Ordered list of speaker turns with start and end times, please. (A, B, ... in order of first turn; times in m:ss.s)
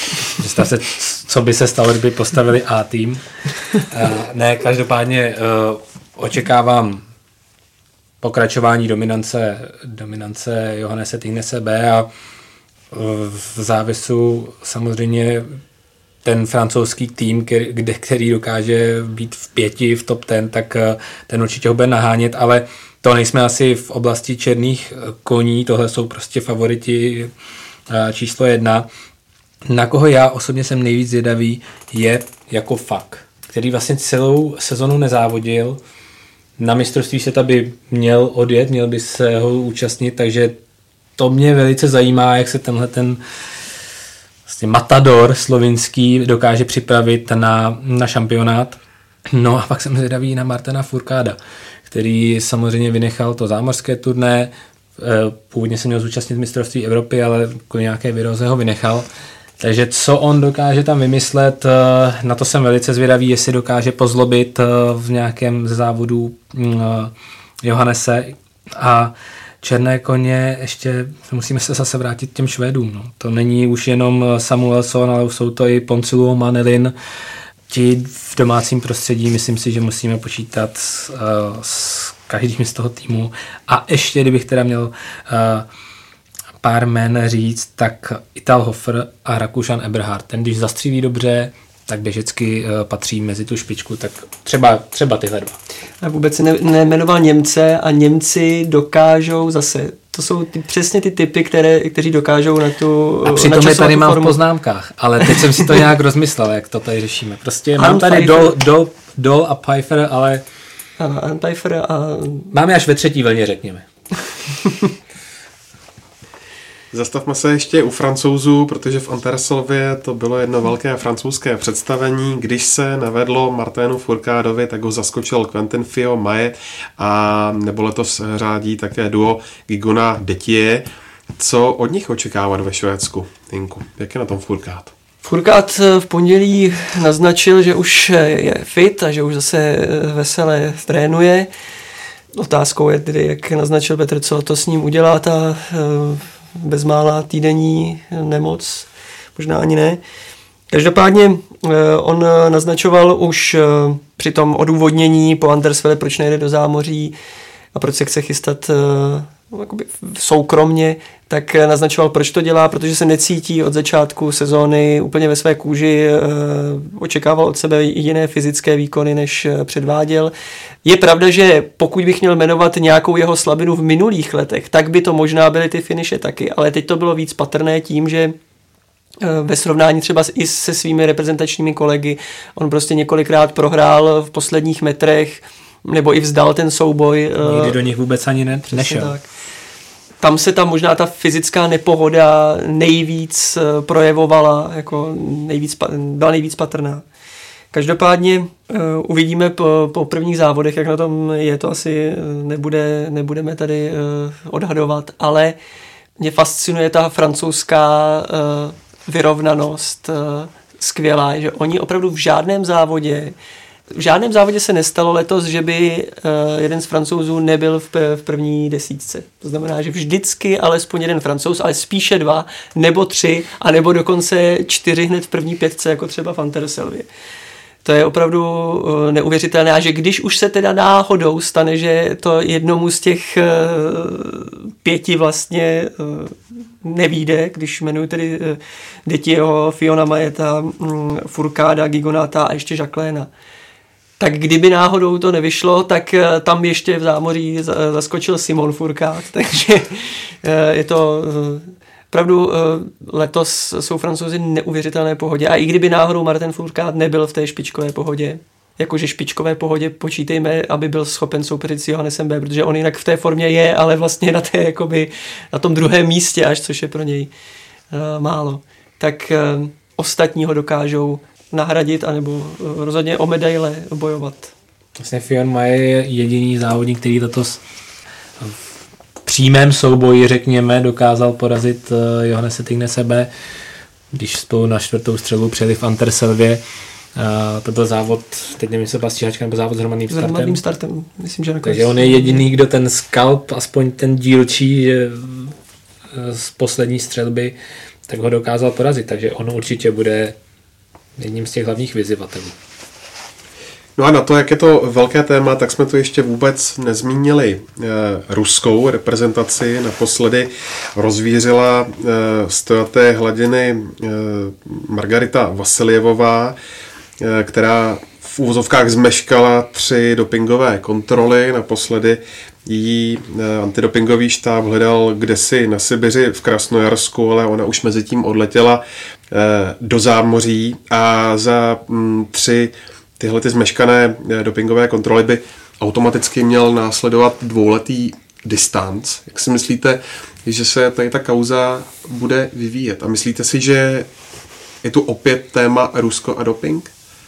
0:00.4-0:03.2 A
0:03.7-0:07.0 A
0:08.2-0:12.1 A
0:12.9-0:15.6 A
0:16.2-0:27.3 A
0:27.9-0:28.8 A
0:29.7-0:35.8 A
0:36.6-0:40.6 A
0:41.2-0:43.2 A
0:44.5-0:48.8 A
0:49.3-0:59.0 A
0:59.6-1:07.1 A
1:07.6-1:17.0 A
1:17.7-1:25.7 A
1:26.6-1:35.6 A
1:36.0-1:44.4 B
1:43.2-1:50.4 A
1:47.8-1:48.6 B
1:51.0-1:52.5 B
1:52.5-1:53.9 A
1:56.9-2:14.9 C
2:15.2-2:21.5 B
2:22.4-2:30.0 B
2:30.7-2:37.1 B
2:37.7-2:50.3 B
2:50.8-2:58.4 B
2:59.2-3:07.8 B
3:07.4-3:09.2 A
3:08.7-3:09.2 B
3:10.2-3:17.0 B
3:17.7-3:25.6 B
3:26.2-3:33.4 B
3:33.9-3:47.1 B
3:47.8-4:03.3 B
4:04.2-4:27.3 B
4:27.9-4:34.5 B
4:35.0-4:37.6 A
4:39.2-4:43.3 A
4:44.1-4:46.6 A
4:47.2-4:50.6 A
4:50.1-4:52.4 B
4:51.6-4:55.5 A
4:56.1-4:57.6 A
4:58.1-5:00.4 A
5:01.2-5:02.6 A
5:04.0-5:16.6 C
5:17.2-5:44.1 C
5:44.8-5:46.9 C